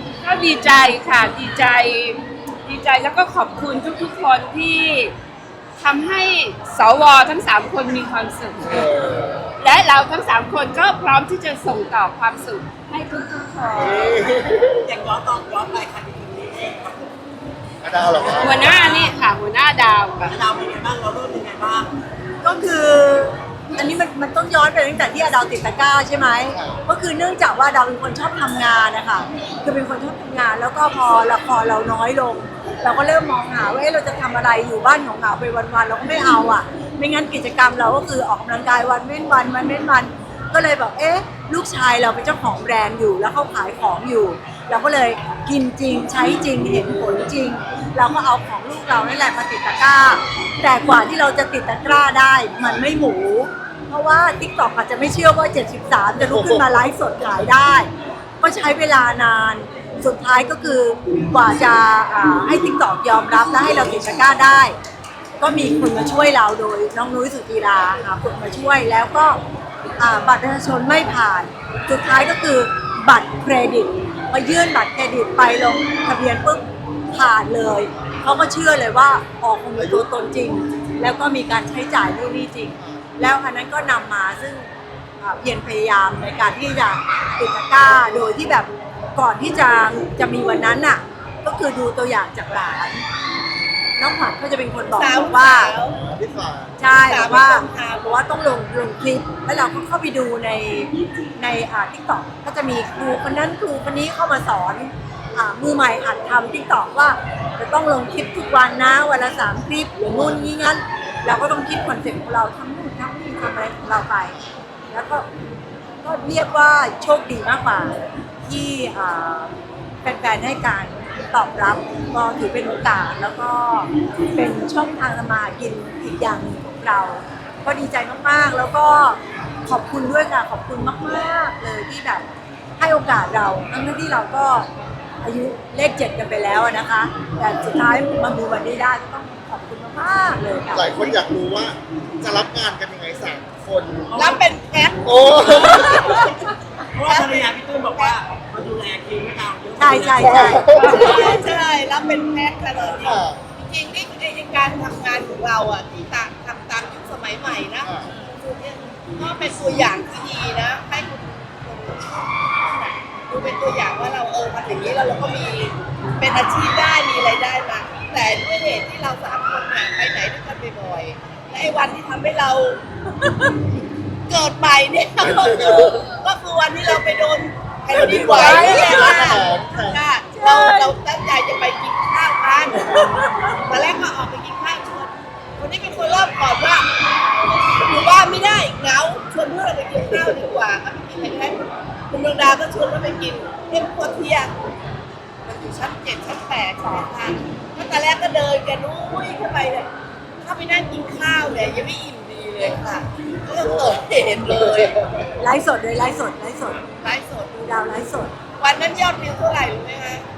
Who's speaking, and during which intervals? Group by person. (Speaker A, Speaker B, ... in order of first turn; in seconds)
Speaker A: 0.2-5.1, 5.8-8.9, 9.6-14.3, 18.3-20.4, 150.7-151.4, 178.3-179.3, 180.3-180.9
Speaker B: 8.6-9.5, 13.8-14.8, 17.8-19.1, 26.5-26.8, 56.2-56.8, 79.8-80.1, 82.7-83.1, 96.0-96.8, 110.1-110.4, 140.7-144.1, 145.0-146.2, 150.2-151.2, 153.0-153.4, 157.8-158.1, 177.9-180.0, 203.6-204.0, 204.5-205.2
Speaker C: 14.8-17.1, 18.1-18.8, 20.2-21.9, 144.1-144.4, 145.7-146.2, 146.9-150.6
Speaker D: 22.4-57.9, 58.4-64.8, 65.4-69.4, 70.0-93.0, 94.0-95.7, 96.8-114.3, 114.9-115.2, 116.0-119.5, 120.0-132.3, 132.8-134.7, 135.2-141.2, 149.8-150.7, 205.4-206.9, 207.6-208.3
Speaker E: 94.9-96.0, 96.9-98.1, 144.2-146.2, 147.0-148.2, 150.8-172.8, 174.3-186.9, 187.4-191.6, 192.1-194.5, 195.4-199.9, 200.4-205.0, 206.9-207.7, 208.6-210.2